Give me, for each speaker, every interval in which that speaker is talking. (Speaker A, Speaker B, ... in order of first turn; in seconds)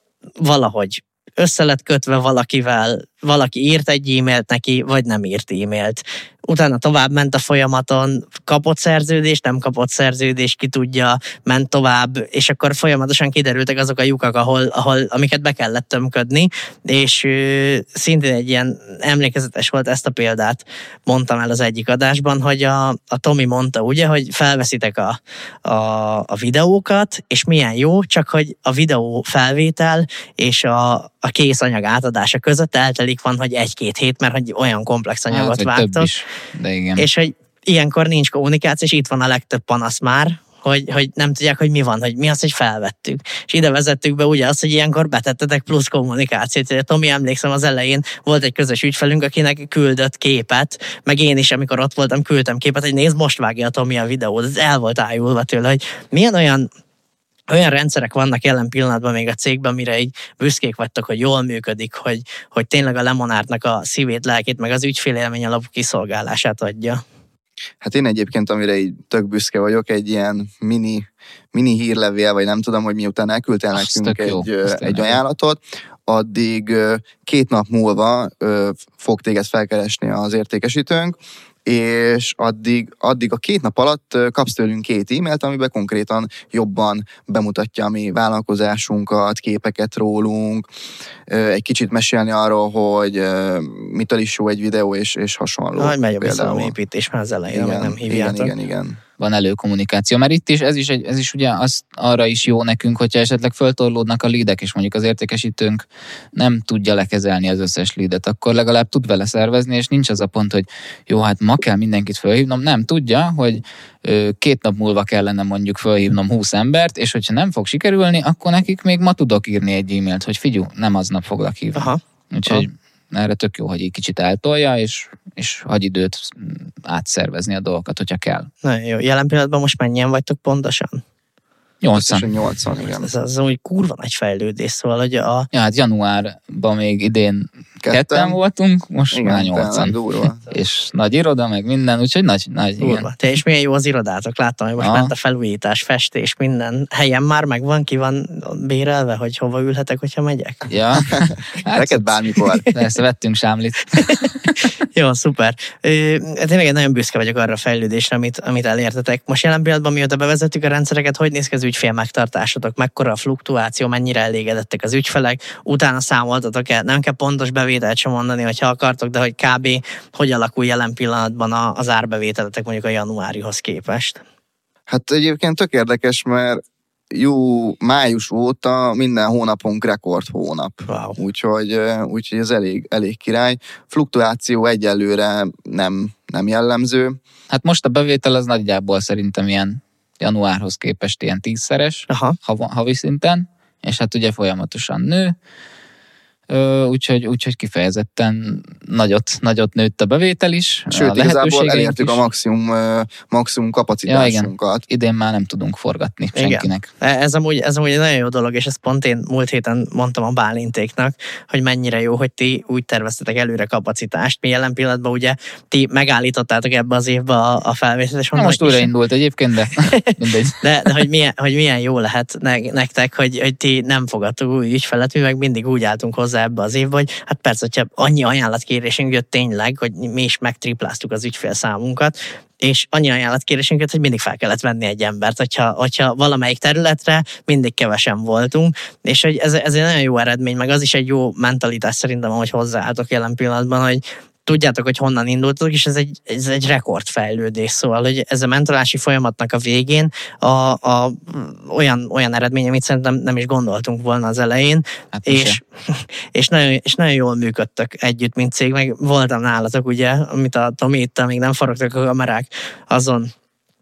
Speaker A: 0.4-36.1, 37.0-56.7, 57.5-67.0, 95.8-98.5, 121.7-122.7, 128.6-131.0, 133.0-135.5, 142.8-150.6, 154.9-174.2, 180.9-181.2, 192.1-192.4, 206.3-218.9, 219.9-263.3
Speaker B: 35.3-37.0, 73.7-75.2, 99.2-128.5, 131.8-132.3, 135.5-139.9, 140.5-143.1, 144.8-145.1, 150.7-154.5, 187.5-195.3, 196.5-202.2, 204.1-206.9, 218.3-220.9, 255.1-255.6
Speaker C: 67.8-90.7, 91.3-96.7, 97.5-99.0, 131.9-133.1, 137.8-138.4, 139.1-140.4, 151.7-152.6, 174.9-187.2, 200.9-204.8